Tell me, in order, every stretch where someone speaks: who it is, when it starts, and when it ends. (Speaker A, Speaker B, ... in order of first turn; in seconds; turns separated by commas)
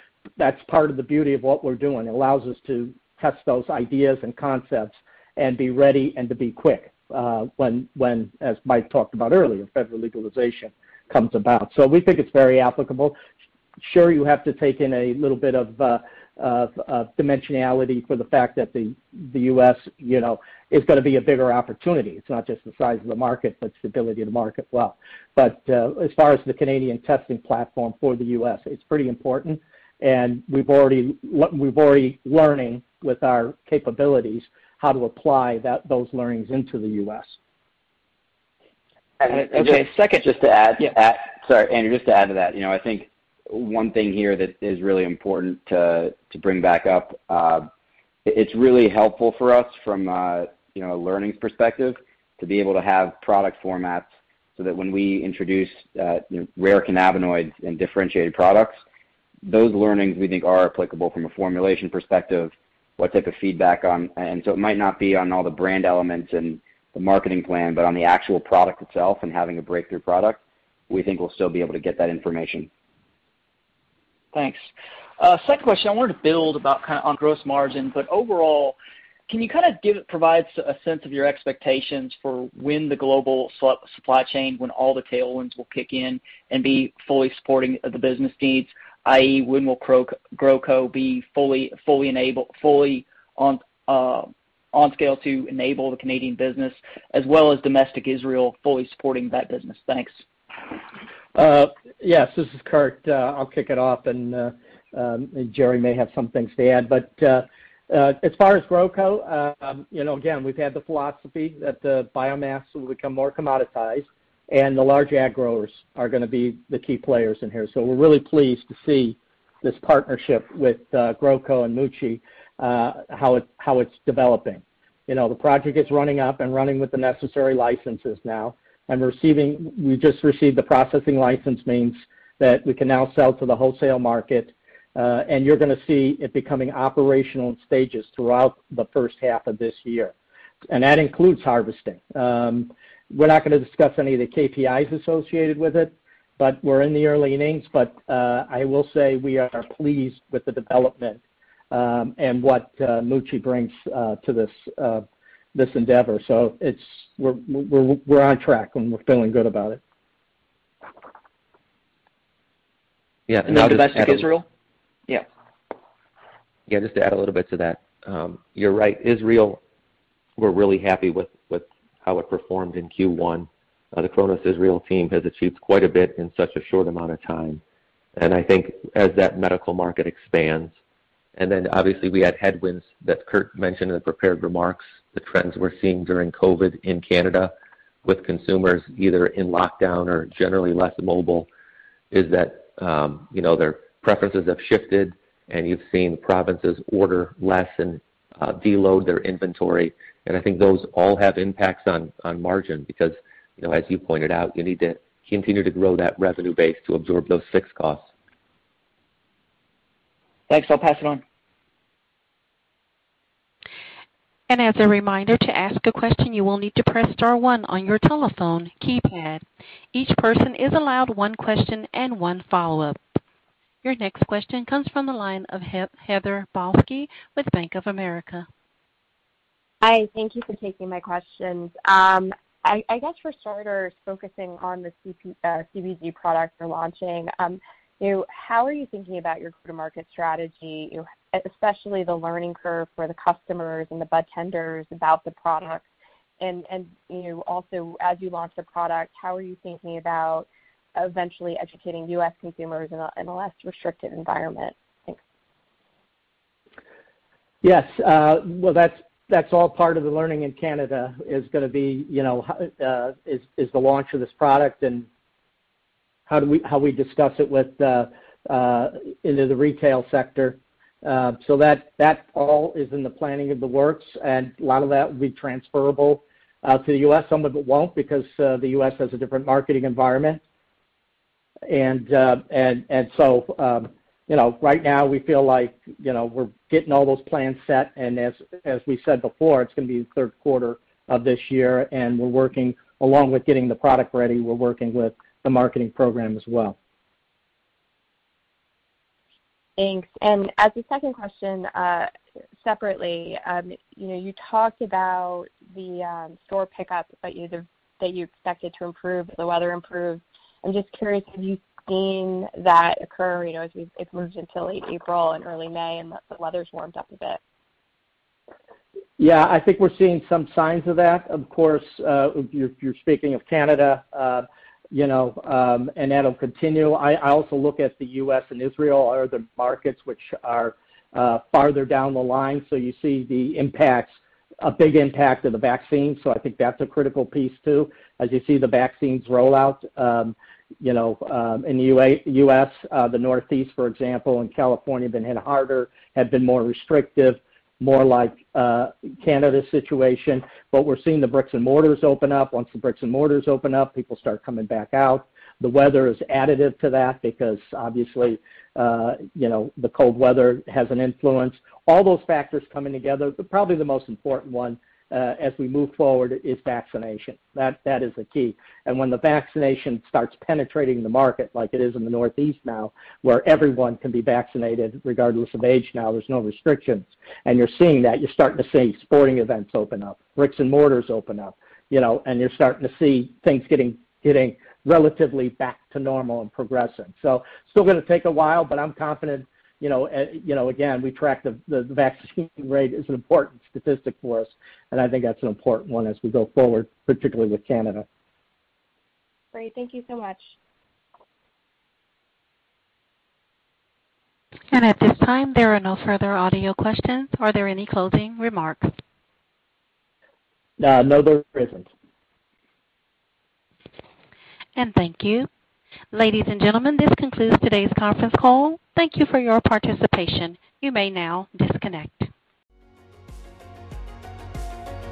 Speaker A: 0.4-13.2, Speaker A: 13.8-37.3, Speaker B: 39.2-47.7, Speaker C: 39.3-40.9, Speaker B: 48.2-58.8, Speaker B: 59.4-72.7, Speaker C: 74.3-74.7, Speaker C: 75.2-78.8, Speaker C: 79.3-100.2, Speaker A: 101.3-140.1, Speaker A: 140.7-151.2, Speaker A: 151.7-159.8, Speaker D: 163.3-164.3, Speaker C: 163.4-164.4, Speaker D: 166.7-169.6, Speaker D: 170.4-177.6, Speaker D: 178.2-180.7, Speaker D: 181.3-187.5, Speaker D: 188.0-191.5, Speaker D: 192.1-208.1, Speaker C: 210.5-211.2, Speaker E: 214.5-223.0, Speaker E: 223.8-228.5, Speaker F: 229.8-245.8, Speaker F: 246.4-255.2, Speaker A: 257.6-265.1, Speaker A: 266.3-280.4, Speaker A: 281.7-296.8, Speaker F: 299.8-302.1, Speaker F: 302.6-317.4, Speaker A: 319.2-398.0, Speaker F: 399.5-400.5, Speaker E: 404.7-408.9, Speaker A: 410.8-411.9, Speaker E: 414.8-415.5, Speaker E: 416.1-422.3